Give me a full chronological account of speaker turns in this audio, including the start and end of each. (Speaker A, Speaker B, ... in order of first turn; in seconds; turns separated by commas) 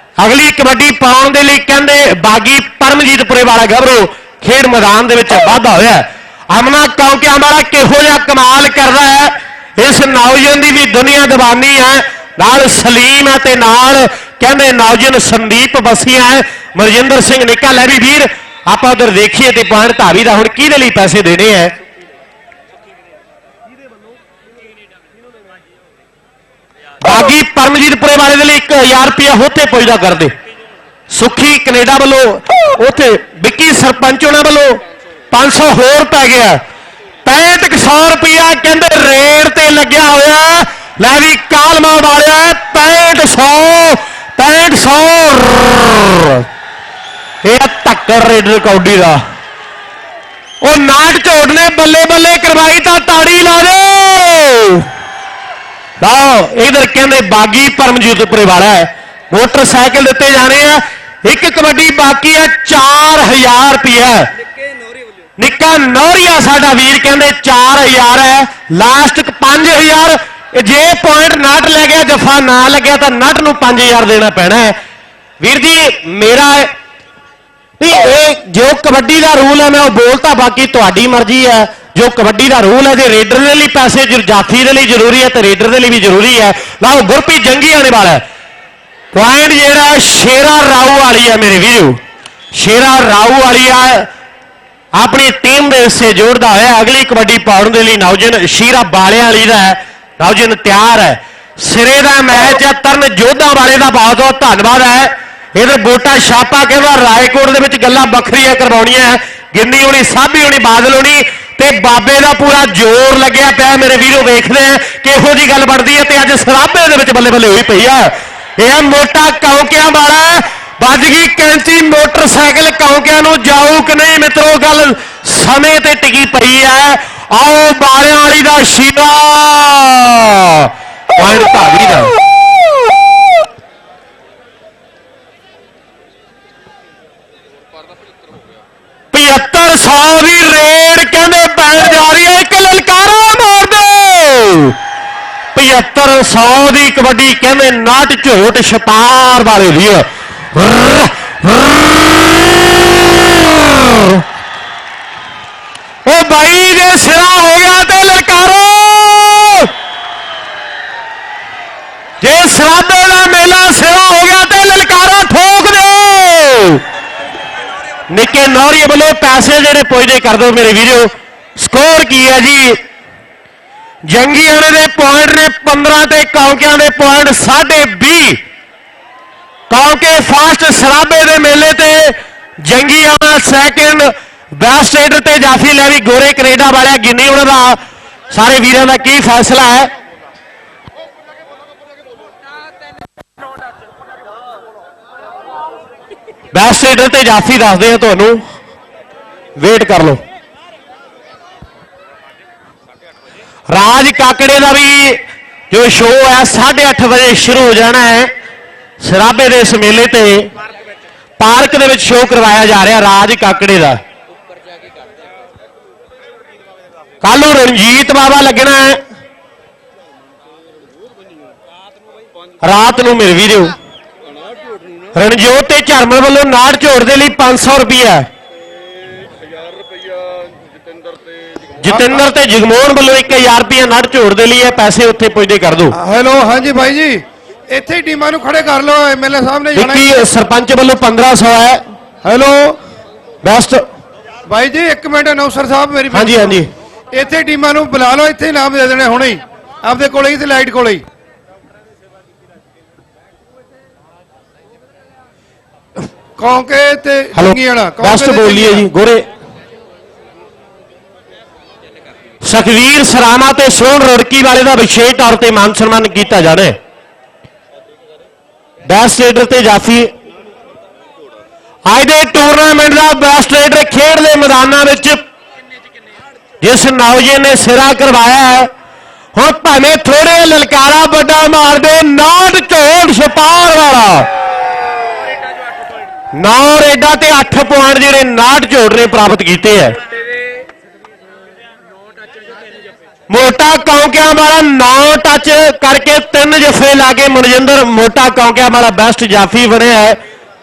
Speaker A: 0.2-21.8, Speaker A: 27.0-30.3, Speaker A: 31.1-36.6, Speaker A: 37.2-46.5, Speaker A: 47.4-49.2, Speaker A: 50.6-54.9, Speaker A: 56.0-64.3, Speaker B: 64.5-65.2, Speaker A: 65.4-74.8, Speaker A: 75.4-76.7, Speaker A: 77.8-88.2, Speaker A: 89.1-92.0, Speaker A: 92.5-94.1, Speaker A: 94.9-132.2, Speaker A: 139.1-144.8, Speaker A: 145.5-154.2, Speaker A: 156.1-159.7, Speaker A: 162.2-166.8, Speaker A: 168.1-172.8, Speaker A: 174.1-178.4, Speaker A: 179.7-187.8, Speaker A: 188.3-189.9, Speaker A: 196.5-198.4, Speaker A: 199.6-200.2, Speaker A: 203.7-208.3, Speaker A: 209.0-210.5, Speaker A: 211.4-214.0, Speaker B: 214.7-215.0, Speaker A: 217.2-219.0, Speaker A: 222.6-223.8, Speaker A: 225.1-228.3, Speaker B: 229.2-231.6, Speaker A: 231.8-236.0, Speaker C: 231.9-232.2, Speaker C: 235.9-240.2, Speaker A: 239.7-241.8, Speaker C: 242.2-242.8, Speaker A: 243.4-243.8, Speaker C: 244.5-246.6, Speaker A: 246.1-246.7, Speaker C: 247.1-251.0, Speaker C: 256.4-258.9, Speaker A: 257.3-259.3, Speaker A: 262.4-266.8, Speaker A: 268.9-270.1, Speaker A: 271.9-275.2, Speaker A: 276.6-278.7, Speaker A: 279.3-284.3, Speaker A: 286.3-290.0, Speaker A: 293.3-300.2